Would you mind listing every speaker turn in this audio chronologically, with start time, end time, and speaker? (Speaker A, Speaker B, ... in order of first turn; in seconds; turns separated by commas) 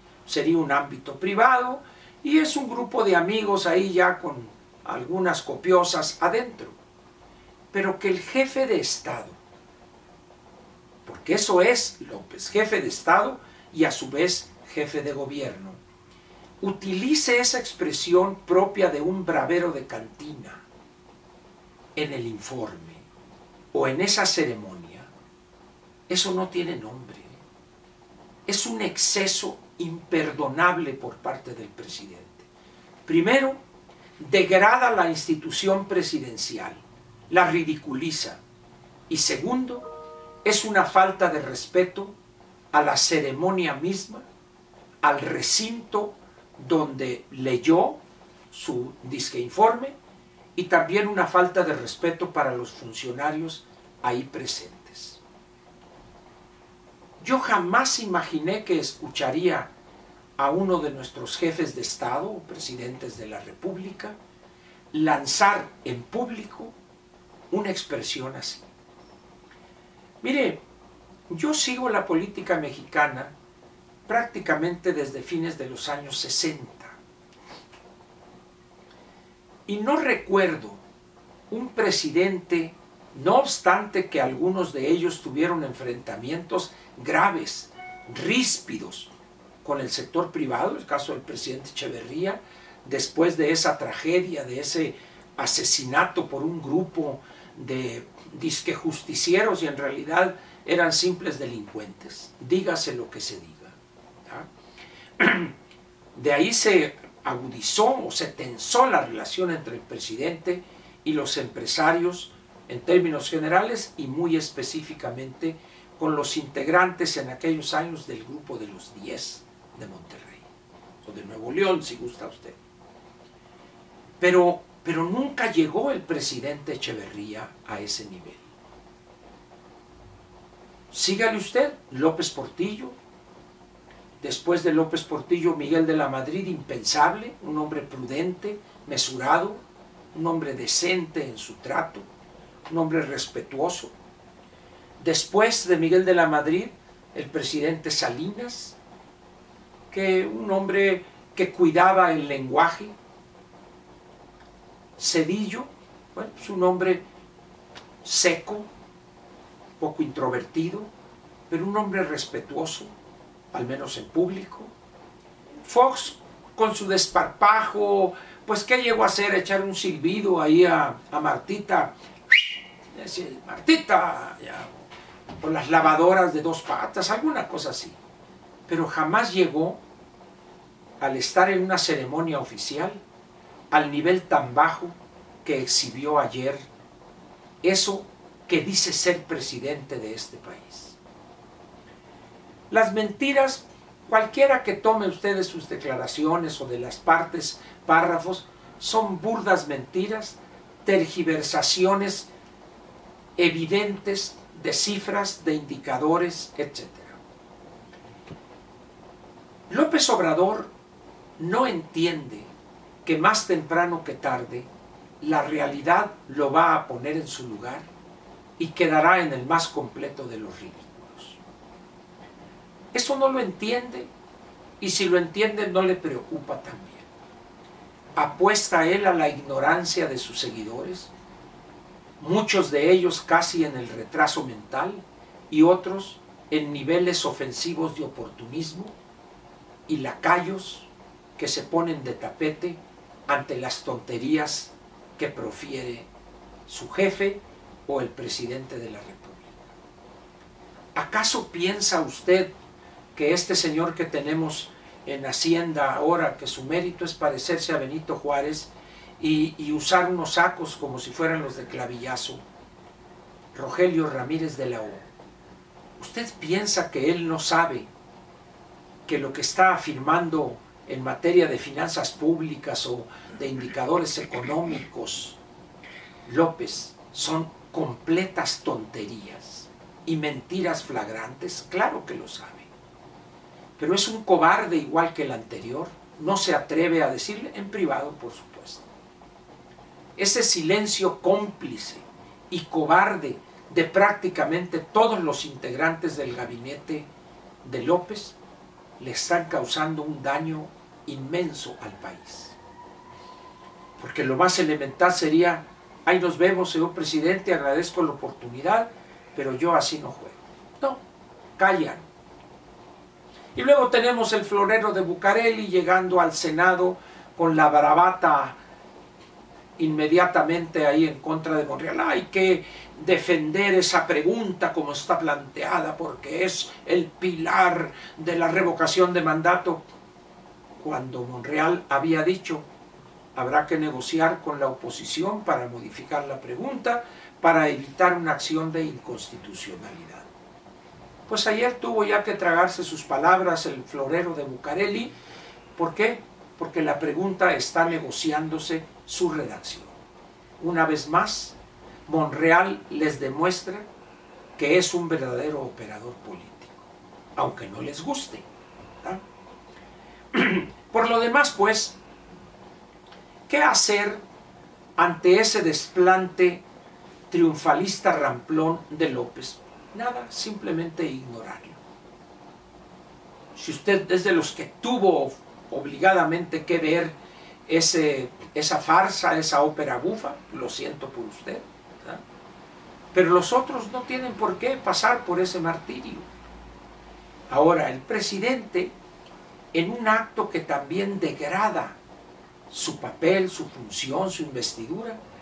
Speaker A: 0.3-6.8, Speaker A: 7.7-9.4, Speaker A: 11.1-15.8, Speaker A: 16.6-20.6, Speaker A: 22.0-23.1, Speaker A: 23.7-25.1, Speaker A: 26.1-27.4, Speaker A: 28.5-32.5, Speaker A: 33.1-33.6, Speaker A: 34.2-38.4, Speaker A: 39.1-39.9, Speaker A: 40.4-42.1, Speaker A: 42.7-44.2, Speaker A: 45.0-49.9, Speaker A: 50.6-55.2, Speaker A: 57.2-59.7, Speaker A: 60.4-64.2, Speaker A: 64.9-66.7, Speaker A: 67.5-68.7, Speaker A: 70.2-70.6, Speaker A: 71.3-73.3, Speaker A: 74.1-77.0, Speaker A: 79.7-80.8, Speaker A: 81.5-89.1, Speaker A: 89.6-104.5, Speaker A: 105.2-105.5, Speaker A: 106.2-120.5, Speaker A: 121.0-122.6, Speaker A: 124.2-128.5, Speaker A: 130.9-132.9, Speaker A: 134.2-139.6, Speaker A: 140.1-142.1, Speaker A: 142.7-143.9, Speaker A: 145.0-148.8, Speaker A: 149.9-152.9, Speaker A: 155.0-157.0, Speaker A: 158.0-158.7, Speaker A: 159.8-160.9, Speaker A: 161.5-162.9, Speaker A: 163.5-164.7, Speaker A: 165.6-174.7, Speaker A: 175.4-178.0, Speaker A: 178.7-179.8, Speaker A: 181.0-183.0, Speaker A: 183.7-186.7, Speaker A: 187.6-191.0, Speaker A: 192.7-202.3, Speaker A: 203.4-207.2, Speaker A: 209.7-210.7, Speaker A: 211.4-212.5, Speaker A: 213.1-214.7, Speaker A: 215.2-217.9, Speaker A: 218.6-221.4, Speaker A: 222.9-224.1, Speaker A: 224.8-227.1, Speaker A: 228.2-231.1, Speaker A: 232.2-238.9, Speaker A: 239.9-246.1, Speaker A: 246.7-249.5, Speaker A: 250.9-252.5, Speaker A: 253.2-262.4, Speaker A: 263.5-265.1, Speaker A: 266.0-267.9, Speaker A: 269.1-275.4, Speaker A: 276.3-282.7, Speaker A: 283.8-288.9, Speaker A: 290.2-297.1, Speaker A: 297.6-298.4, Speaker A: 299.0-302.6, Speaker A: 304.0-311.0, Speaker A: 311.6-312.1, Speaker A: 313.6-318.6, Speaker A: 319.8-329.8, Speaker A: 330.8-332.6, Speaker A: 333.4-340.3, Speaker A: 341.3-345.1, Speaker A: 345.8-350.0, Speaker A: 350.6-351.6, Speaker A: 352.1-353.9, Speaker A: 354.6-358.5, Speaker A: 360.3-362.0, Speaker A: 363.5-364.2, Speaker A: 365.0-366.6, Speaker A: 367.3-371.8, Speaker A: 373.6-377.1, Speaker A: 377.7-382.2, Speaker A: 383.1-386.3, Speaker A: 387.5-388.9, Speaker A: 389.7-392.0, Speaker A: 392.7-395.2